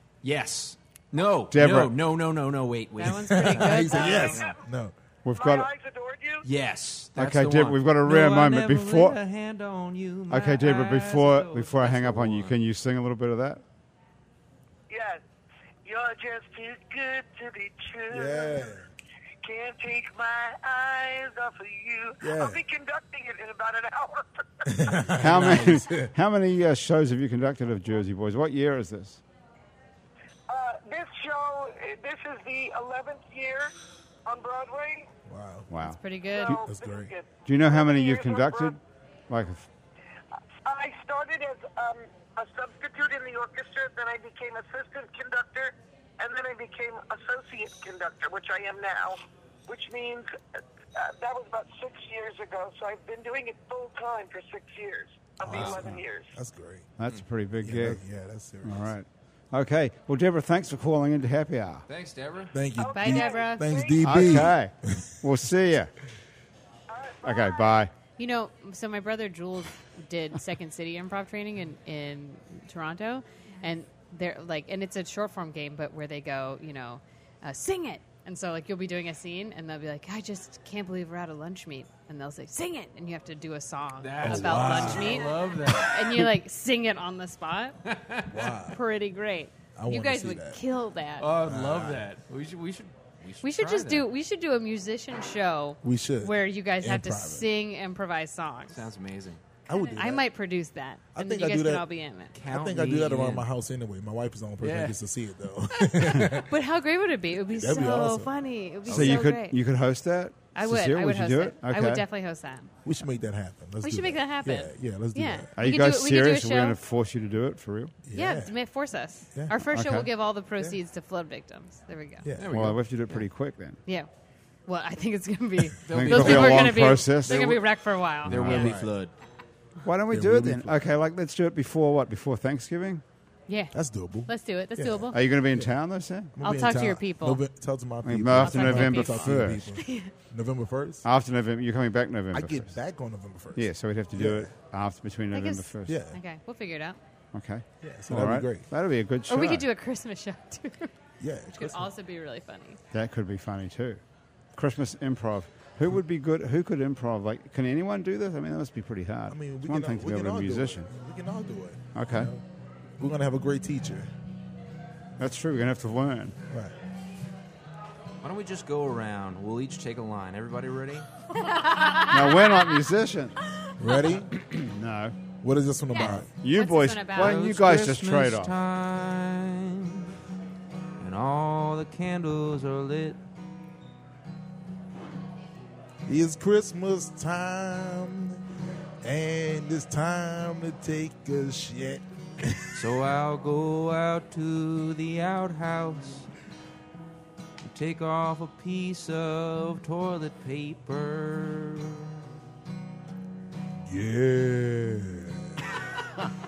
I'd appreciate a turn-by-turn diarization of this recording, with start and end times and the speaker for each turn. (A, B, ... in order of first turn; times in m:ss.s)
0:00.2-0:04.4 A
0:01.5-0:01.9 B
0:03.0-0:04.4 C
0:03.1-0:04.9 D
0:03.9-0:04.6 E
0:05.2-0:05.7 B
0:05.3-0:06.5 E
0:06.4-0:12.6 A
0:07.2-0:09.2 B
0:10.3-0:13.6 B
0:14.9-0:15.2 E
0:15.8-0:18.6 E
0:18.1-0:18.9 D
0:19.4-0:24.8 E
0:22.2-0:22.6 D
0:24.6-0:26.1 D
0:25.1-0:29.2 B
0:30.5-0:33.7 E
0:34.2-0:35.1 E
0:35.2-0:35.7 D
0:35.7-0:36.0 B
0:35.8-0:36.6 C
0:36.3-0:38.8 E
0:36.5-0:37.1 D
0:37.4-0:39.7 B
0:40.6-0:50.3 E
0:50.9-0:56.3 E
0:55.4-0:56.9 D
0:55.6-0:56.0 B
0:57.0-0:58.0 B
0:57.6-0:58.9 D
0:58.6-1:01.8 B
1:01.9-1:02.6 A
1:02.5-1:05.5 D
1:02.7-1:04.4 E
1:02.9-1:03.7 C
1:04.0-1:05.9 B
1:06.9-1:07.8 E
1:07.2-1:07.9 B
1:08.2-1:27.8 C
1:24.0-1:26.2 A
1:24.2-1:25.4 D
1:27.8-1:28.4 A
1:28.2-1:28.8 D
1:28.6-1:31.3 C
1:29.8-1:30.6 D
1:31.2-1:34.1 A
1:31.4-1:32.0 D
1:33.4-1:38.8 C
1:35.8-1:37.5 D
1:38.7-1:39.4 A
1:39.7-1:40.3 D
1:39.7-1:42.3 C
1:41.1-1:41.9 D
1:42.3-1:43.5 A
1:42.4-1:46.5 D
1:44.6-1:45.0 A
1:45.9-1:49.6 C
1:47.4-1:48.3 D
1:48.9-1:49.2 A
1:48.9-1:52.0 B
1:50.5-1:52.7 C
1:52.8-1:55.5 D
1:53.8-1:56.8 C
1:55.6-1:57.9 B
1:58.0-1:58.5 D
1:58.1-2:02.3 C
1:59.3-1:59.6 D
1:59.7-2:00.1 B
2:02.2-2:02.7 D
2:02.4-2:03.3 A
2:02.5-2:03.8 B
2:04.7-2:08.7 C
2:05.8-2:07.6 A
2:05.9-2:07.6 B
2:08.2-2:08.7 B
2:08.2-2:09.1 A
2:08.3-2:09.0 D
2:09.8-2:13.0 B
2:10.1-2:10.8 D
2:13.5-2:15.2 C
2:13.7-2:15.7 D
2:15.1-2:16.3 B
2:16.3-2:21.0 D
2:16.4-2:17.4 C
2:18.0-2:19.8 B
2:18.4-2:20.1 C
2:21.0-2:22.7 B
2:22.3-2:24.5 D
2:23.5-2:26.0 B
2:25.3-2:27.0 C
2:25.8-2:26.2 D
2:27.3-2:29.7 B
2:27.8-2:28.7 D
2:29.3-2:30.9 C
2:31.2-2:31.9 D
2:31.5-2:32.8 C
2:32.9-2:34.0 B
2:34.5-2:40.9 B
2:39.3-2:42.4 D
2:41.9-2:42.3 B
2:43.0-2:44.1 D
2:45.2-2:46.4 B
2:46.5-2:46.8 D
2:48.2-2:51.1 A
2:52.0-2:55.2 B
2:53.8-2:54.3 D
2:55.4-2:56.3 D
2:55.9-2:57.5 C
2:56.0-2:58.5 B
2:57.2-3:00.1 A
3:01.0-3:03.2 A
3:06.0-3:08.4 D
3:09.0-3:12.8 D
3:12.7-3:16.3 A
3:17.6-3:22.1 A
3:23.8-3:25.6 D